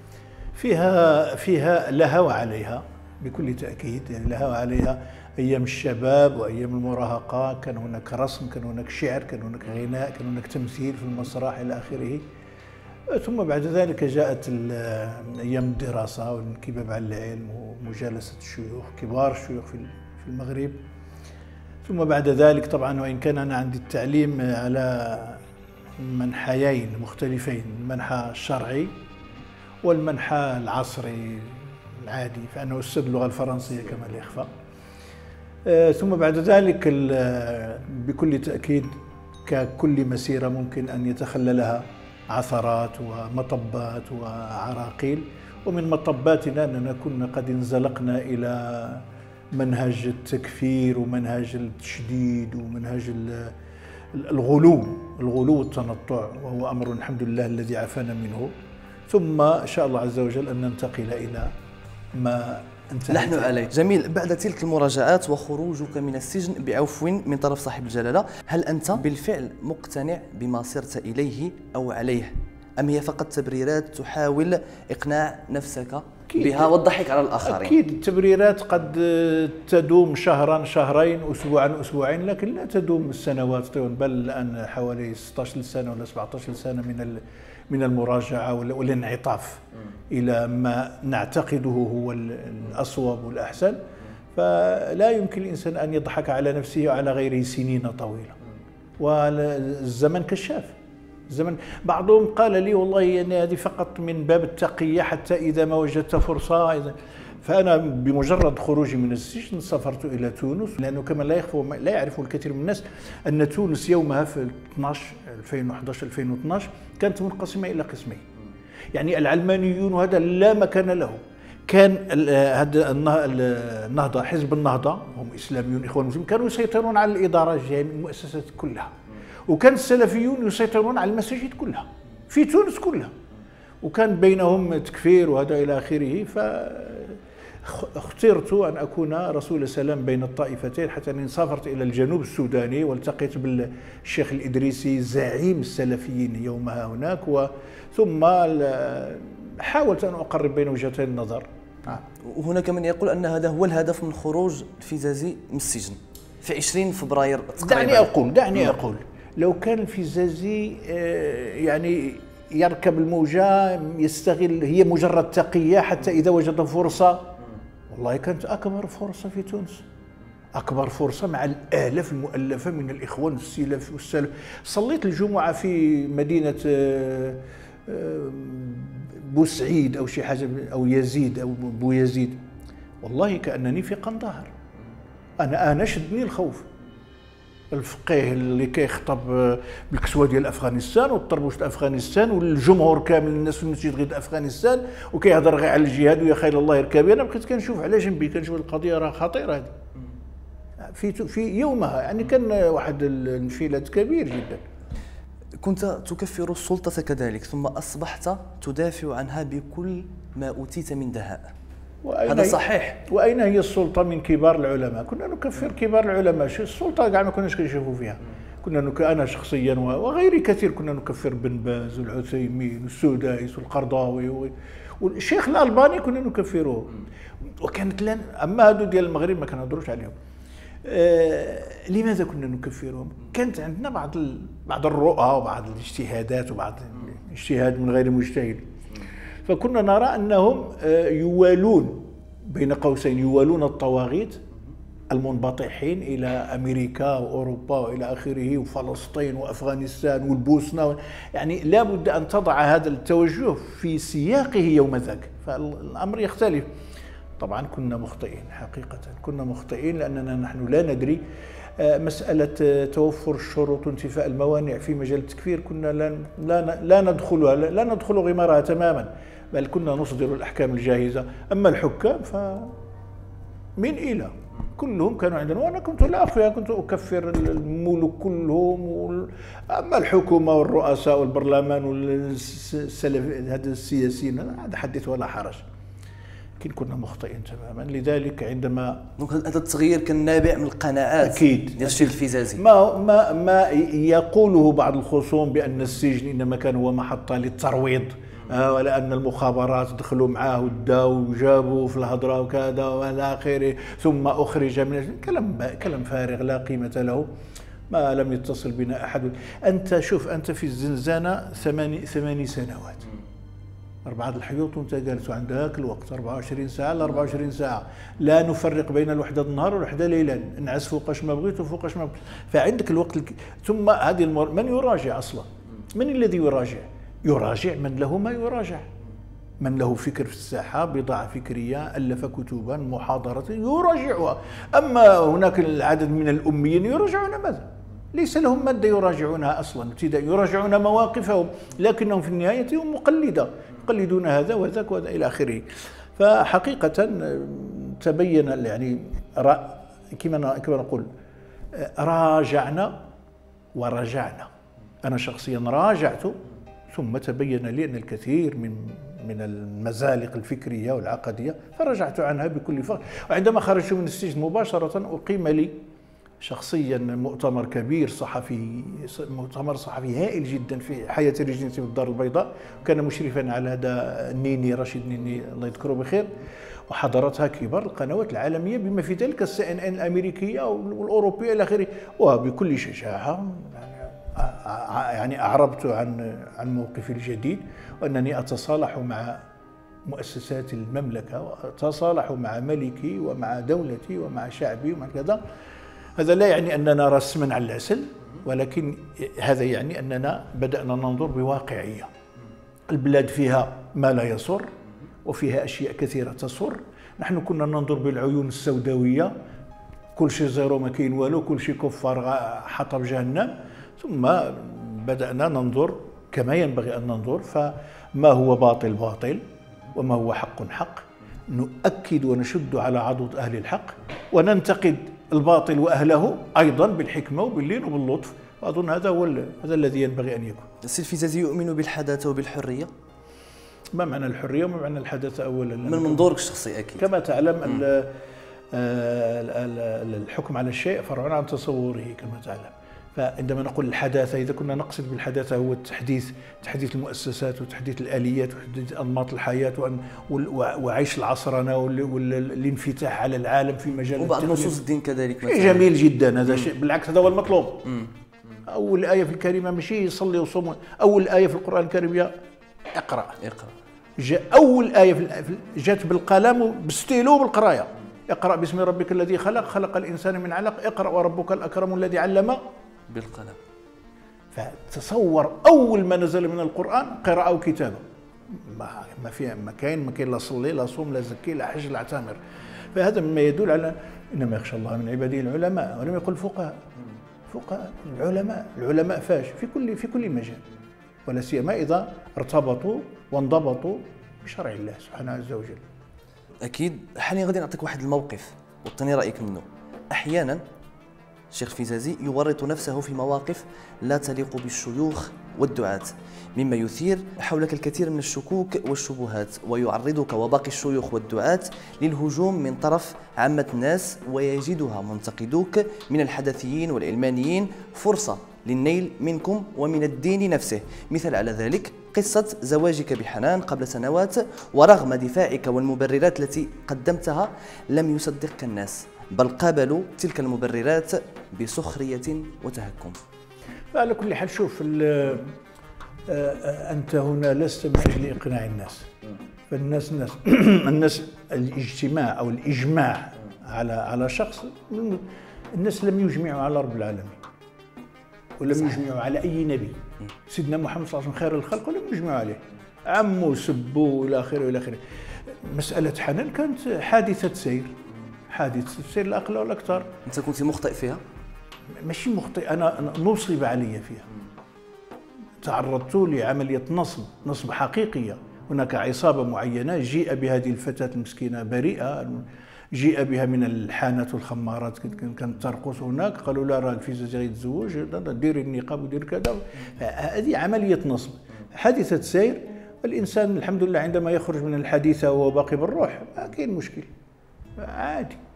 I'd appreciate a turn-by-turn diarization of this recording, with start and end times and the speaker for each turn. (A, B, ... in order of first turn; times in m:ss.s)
0:00.6-0:12.3 A
0:13.1-0:20.8 A
0:21.8-0:25.4 A
0:26.0-0:29.0 A
0:29.8-0:34.6 A
0:35.7-0:53.6 A
0:54.1-0:58.5 A
0:59.1-1:01.5 A
1:02.1-1:03.6 A
1:03.1-1:17.8 B
1:16.3-1:16.8 A
1:17.4-1:33.8 A
1:34.4-1:38.4 A
1:39.0-1:40.8 A
1:41.3-1:58.2 A
1:58.9-2:08.9 A
2:09.5-2:13.1 A
2:13.8-2:32.0 A
2:32.2-2:38.1 B
2:37.6-2:47.3 A
2:47.9-2:49.8 A
2:50.5-3:02.4 A
3:03.0-3:04.5 A
3:05.4-3:06.7 A
3:07.7-3:19.7 A
3:20.8-3:24.6 A
3:25.6-3:31.5 B
3:32.0-3:47.0 A
3:32.3-3:33.0 B
3:47.6-3:50.2 A
3:50.8-3:58.7 A
3:59.4-4:04.4 A
4:05.1-4:16.7 A
4:17.4-4:21.2 A
4:21.8-4:32.8 A
4:33.8-4:45.6 A
4:46.6-4:49.1 A
4:49.2-4:52.6 B
4:51.2-5:07.3 A
5:07.9-5:13.1 A
5:14.1-5:28.9 A
5:29.6-5:51.1 A
5:51.7-5:53.1 A
5:53.8-5:54.5 A
5:55.0-5:56.4 A
5:56.9-6:05.8 A
6:06.4-6:29.5 A
6:30.1-6:35.4 A
6:36.2-6:42.1 A
6:42.9-6:44.7 A
6:45.2-6:49.3 A
6:50.2-6:59.4 A
6:59.9-7:10.7 A
7:10.8-7:12.9 B
7:13.9-7:16.3 A
7:15.8-7:17.1 B
7:17.0-7:18.2 A
7:18.7-7:34.8 A
7:34.2-7:35.9 B
7:35.4-7:37.9 A
7:38.7-7:42.3 A
7:42.9-7:43.4 A
7:43.4-7:43.7 B
7:44.2-7:52.6 A
7:53.1-7:53.6 B
7:54.5-8:06.8 A
8:07.5-8:10.6 A
8:11.3-8:15.8 A
8:16.6-8:20.6 B
8:21.5-8:53.2 B
8:53.9-8:55.6 A
8:56.3-8:59.1 A
8:59.7-9:07.4 A
9:08.6-9:18.0 A
9:18.5-9:20.1 A
9:20.3-9:21.2 B
9:22.0-9:24.3 A
9:25.6-9:47.1 A
9:47.8-9:48.4 A